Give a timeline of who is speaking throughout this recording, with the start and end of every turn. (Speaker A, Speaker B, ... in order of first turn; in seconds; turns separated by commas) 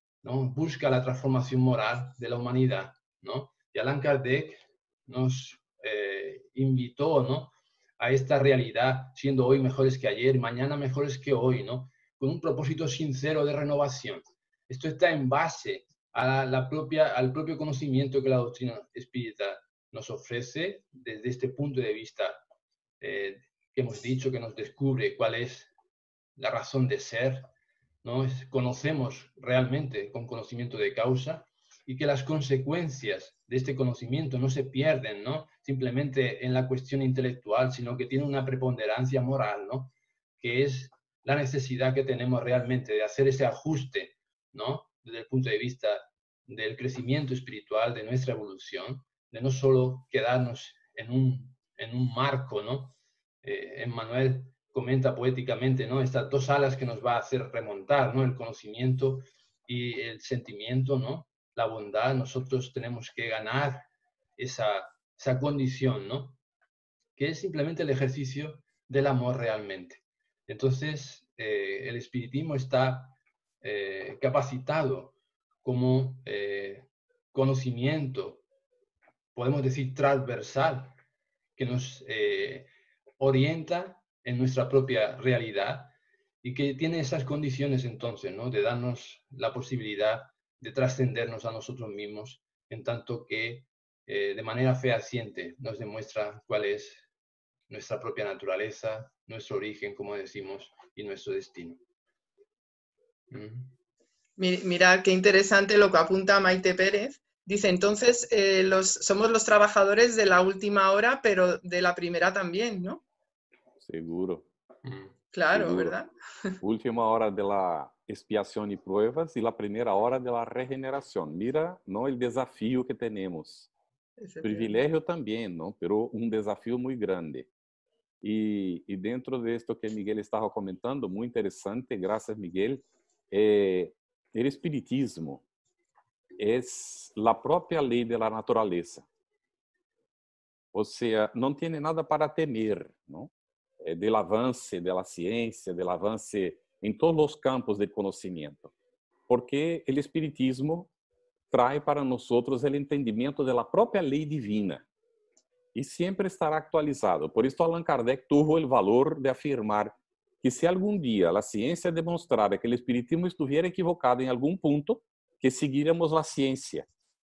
Speaker A: 0.2-22.4, Speaker A: 23.0-25.7, Speaker A: 26.4-27.5, Speaker A: 28.0-66.4, Speaker A: 67.2-78.4, Speaker A: 79.3-81.0, Speaker A: 81.6-97.0, Speaker A: 97.7-101.8, Speaker A: 103.3-103.7, Speaker B: 104.4-113.0, Speaker C: 113.8-114.5, Speaker A: 114.8-115.1, Speaker B: 115.3-116.6, Speaker C: 115.5-116.0, Speaker C: 116.6-123.7, Speaker B: 124.2-124.8, Speaker C: 124.4-127.5, Speaker C: 128.2-135.4, Speaker C: 136.4-139.1, Speaker C: 140.7-143.3, Speaker C: 143.8-148.7, Speaker C: 149.3-150.9, Speaker C: 151.5-154.8, Speaker C: 155.8-166.9